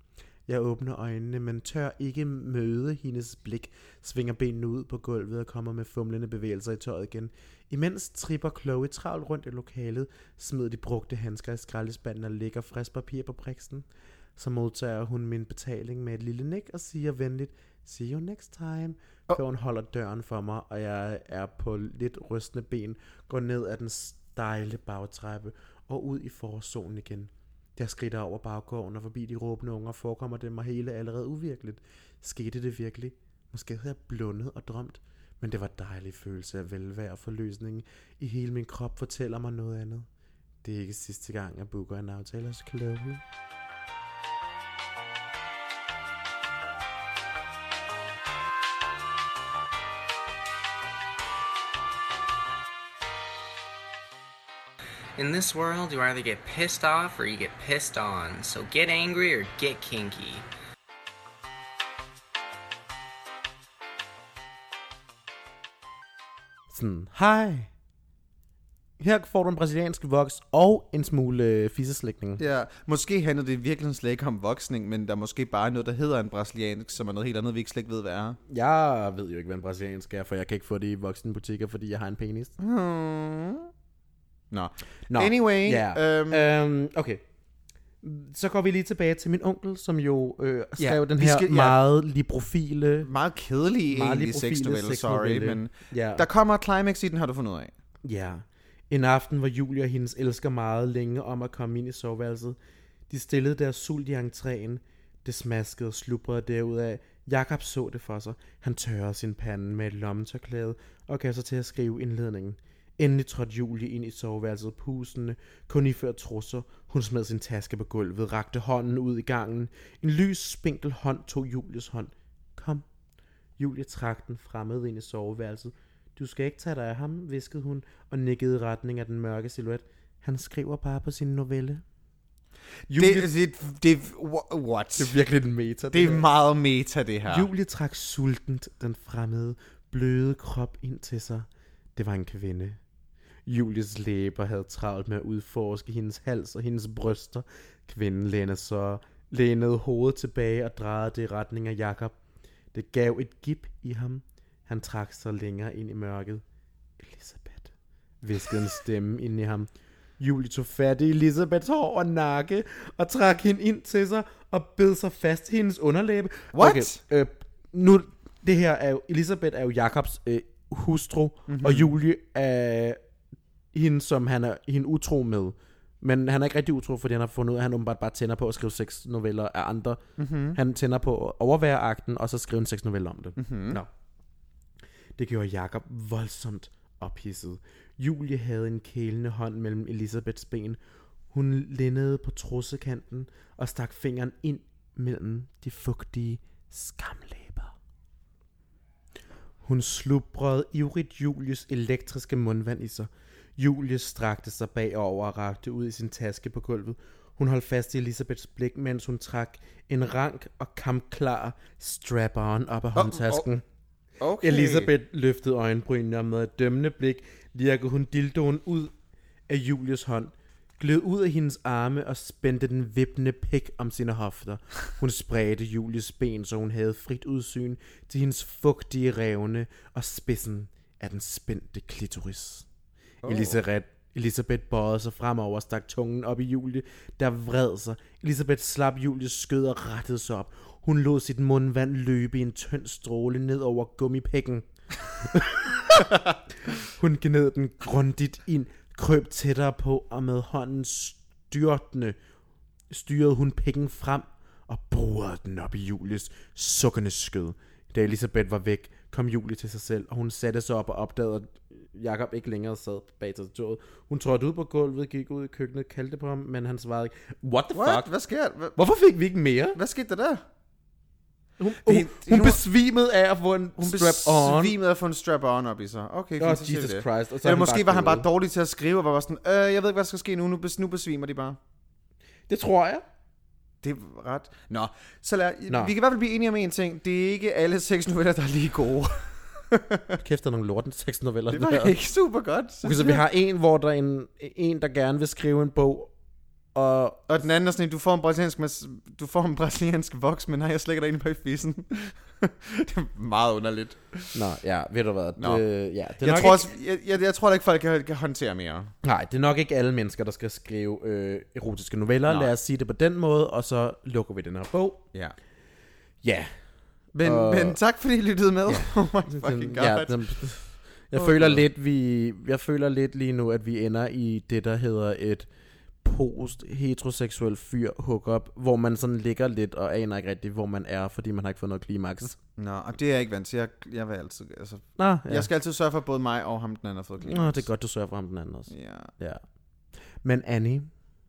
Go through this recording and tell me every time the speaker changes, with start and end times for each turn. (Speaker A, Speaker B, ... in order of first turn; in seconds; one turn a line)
Speaker A: 0.5-13.8
Speaker A: 14.4-40.0
Speaker A: 40.6-43.2
Speaker B: 55.2-60.5
Speaker A: 66.7-67.7
Speaker A: 69.0-72.4
Speaker C: 72.4-78.4
Speaker A: 78.5-82.5
Speaker C: 82.6-83.7
Speaker C: 84.5-86.5
Speaker A: 85.1-87.2
Speaker A: 88.0-93.1
Speaker C: 90.8-91.8
Speaker C: 93.0-97.7
Speaker A: 93.9-96.2
Speaker A: 98.0-102.6
Speaker A: 103.1-122.8
Speaker A: 123.6-131.8
Speaker A: 132.9-133.3
Speaker C: 132.9-135.1
Speaker A: 135.0-136.2
Speaker C: 135.9-137.5
Speaker A: 137.3-142.8
Speaker A: 143.4-152.2
Speaker A: 152.7-156.4
Speaker A: 157.0-173.0
Speaker C: 166.5-167.0
Speaker C: 171.5-171.9
Speaker A: 173.7-180.0
Speaker C: 180.2-180.6
Speaker A: 180.5-183.9
Speaker C: 183.4-183.8
Speaker A: 185.2-190.8
Speaker A: 191.3-197.7
Speaker A: 199.6-213.6
Speaker C: 212.9-213.5
Speaker C: 214.2-214.9
Speaker A: 214.4-218.9
Speaker A: 219.5-232.7
Speaker C: 233.2-233.6
Speaker A: 233.2-252.2
Speaker A: 252.9-268.1
Speaker C: 267.7-268.8
Speaker A: 268.7-269.8
Speaker C: 269.7-270.4
Speaker A: 271.6-274.8
Speaker C: 271.8-272.6
Speaker C: 273.8-281.6
Speaker A: 276.4-278.3
Speaker A: 282.5-283.0
Speaker C: 283.8-290.2
Speaker A: 290.2-291.9
Speaker C: 291.5-293.2
Speaker A: 292.8-296.1
Speaker A: 296.7-297.3
Speaker C: 297.3-304.4
Speaker A: 304.3-306.7
Speaker C: 305.4-305.6
Speaker C: 306.2-308.9
Speaker A: 309.0-315.0
Speaker C: 312.3-312.5
Speaker A: 316.2-316.5
Speaker C: 317.1-320.1
Speaker A: 317.2-317.8
Speaker A: 318.7-325.5
Speaker C: 321.1-321.6
Speaker A: 326.0-332.4
Speaker C: 332.6-337.7
Speaker A: 335.0-335.5
Speaker A: 337.2-339.4
Speaker C: 338.7-339.1
Speaker A: 340.2-340.9